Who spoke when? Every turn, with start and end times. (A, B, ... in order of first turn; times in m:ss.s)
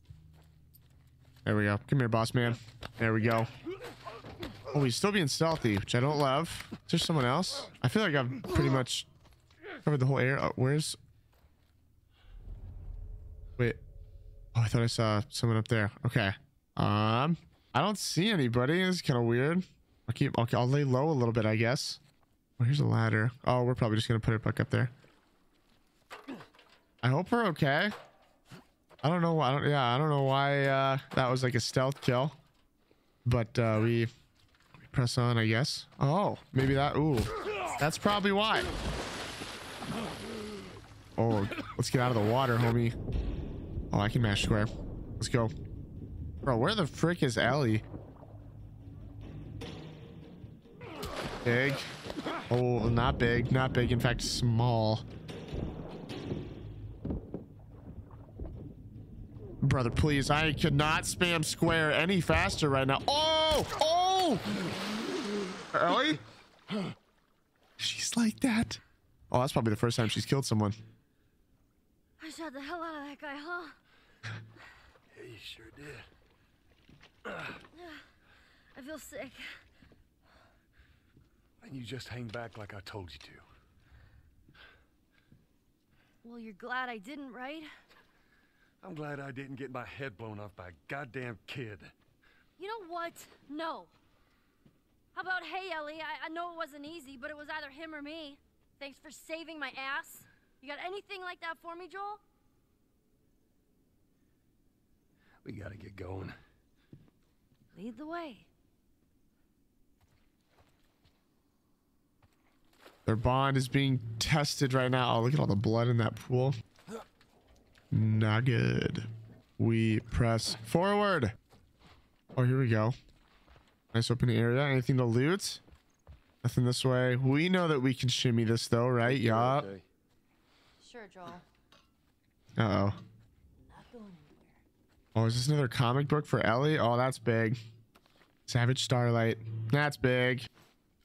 0:01.4-0:03.5 A
0:04.7-0:09.1 A
0:09.8-0:11.0 A
0:14.5-0:22.0 A
0:22.6-0:24.9 A
0:27.0-0:27.9 A
0:29.0-0:32.4 A
0:33.2-0:34.1 A
0:34.9-0:38.7 A
0:41.2-0:42.9 A
0:43.9-0:45.5 A
0:46.4-0:47.8 A
0:51.4-0:51.9 A
0:52.5-0:55.0 A
0:59.6-1:04.5 A
1:05.7-1:06.2 A
1:07.8-1:10.8 A
1:12.2-1:13.8 B
1:15.1-1:16.1 C
1:17.7-1:18.0 B
1:18.7-1:19.6 B
1:21.6-1:23.4 C
1:26.2-1:27.7 B
1:28.8-1:31.9 C
1:32.6-1:33.9 B
1:35.1-1:42.2 B
1:45.4-1:46.4 C
1:47.7-1:48.5 B
1:53.0-1:56.5 A
1:57.9-2:01.4 A
2:02.3-2:02.9 A
2:03.9-2:05.6 A
2:06.4-2:09.7 A
2:09.0-2:09.8 C
2:10.8-2:11.4 B
2:12.6-2:13.0 A
2:13.6-2:14.6 B
2:15.1-2:17.6 A
2:18.5-2:20.5 A